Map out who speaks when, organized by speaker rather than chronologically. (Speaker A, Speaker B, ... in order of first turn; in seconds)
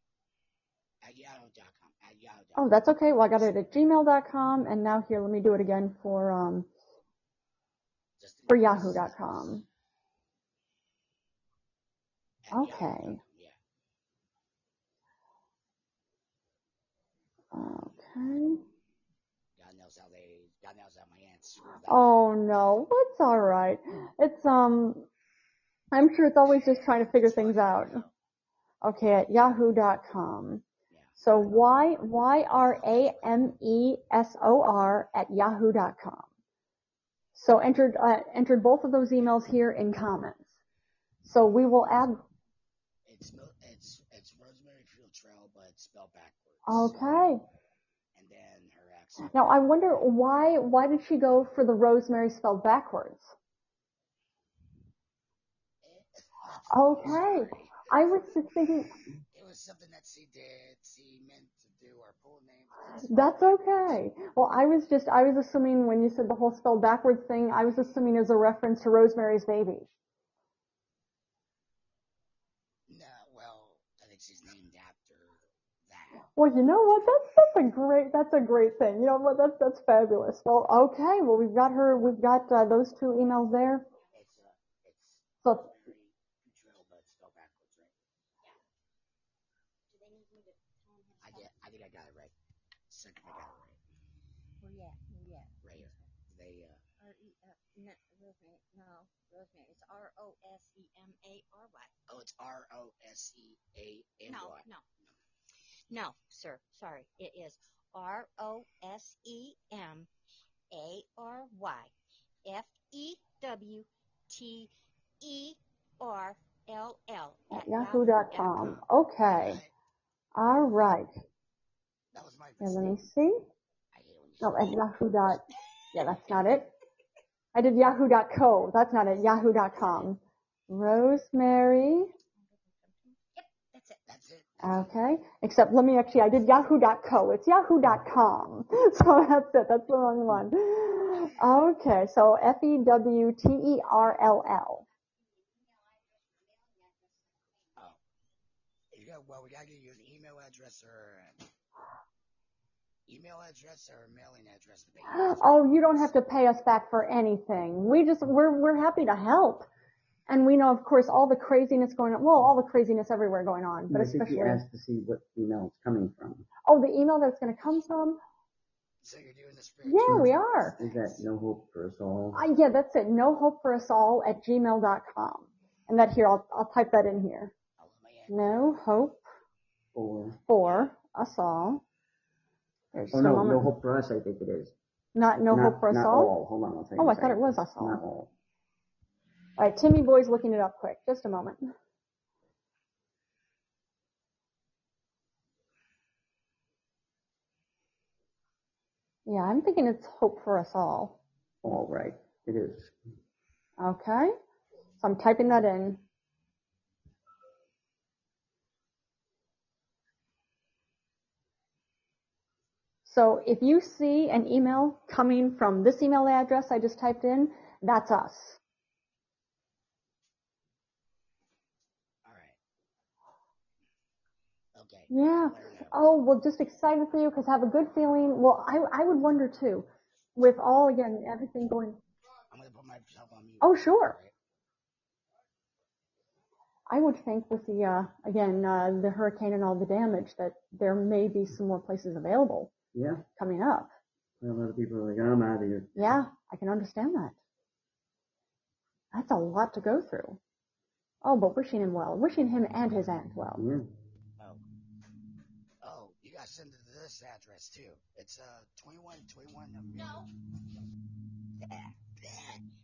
Speaker A: 1.0-3.5, 8.2-9.7, 12.4-13.6, 19.6-22.1, 26.7-28.1, 30.9-31.5, 32.6-33.5, 43.0-47.3, 48.1-49.3, 55.8-58.3, 59.3-64.0, 72.9-76.3, 84.1-87.9, 91.2-92.3, 92.9-93.8, 95.6-96.8, 102.1-104.7, 119.3-119.7, 122.1-123.0, 123.9-124.8, 134.1-134.9, 148.9-151.4, 153.1-156.1, 169.0-171.2, 177.8-178.7, 222.2-222.6, 224.7-226.0, 232.5-234.3, 255.8-260.2, 261.6-262.6
Speaker B: 2.5-6.7, 8.5-9.6, 12.5-13.2, 17.5-18.6, 21.9-25.1, 25.9-28.0, 28.8-30.6, 31.2-36.3, 37.3-40.4, 41.2-42.2, 46.7-47.4, 49.3-53.3, 56.7-58.9, 63.1-69.9, 76.3-83.8, 117.5-119.6, 120.3-121.1, 122.6-123.4, 124.4-126.7, 127.5-132.1, 134.6-144.8, 155.1-159.7, 160.3-164.6, 166.7-168.2, 169.8-170.8, 172.3-177.5, 178.3-179.2, 180.5-181.8, 182.9-183.7, 185.1-186.3, 187.0-188.0, 189.6-191.6, 199.3-201.2, 203.8-204.3, 205.0-206.0, 213.1-218.6, 225.1-232.0, 233.6-234.2, 236.9-242.7, 243.4-243.9, 245.9-247.3, 249.1-250.4, 251.2-253.6
Speaker C: 89.9-91.6, 94.6-96.1, 97.0-101.9, 104.3-104.8, 105.9-110.1, 110.7-111.9, 112.4-118.8, 132.4-134.0, 145.2-147.9, 259.9-260.3
Speaker D: 163.9-166.5, 170.1-172.4, 179.9-180.4, 183.1-184.7, 185.5-188.3, 201.6-202.9, 242.9-243.2, 244.4-245.9, 253.6-253.9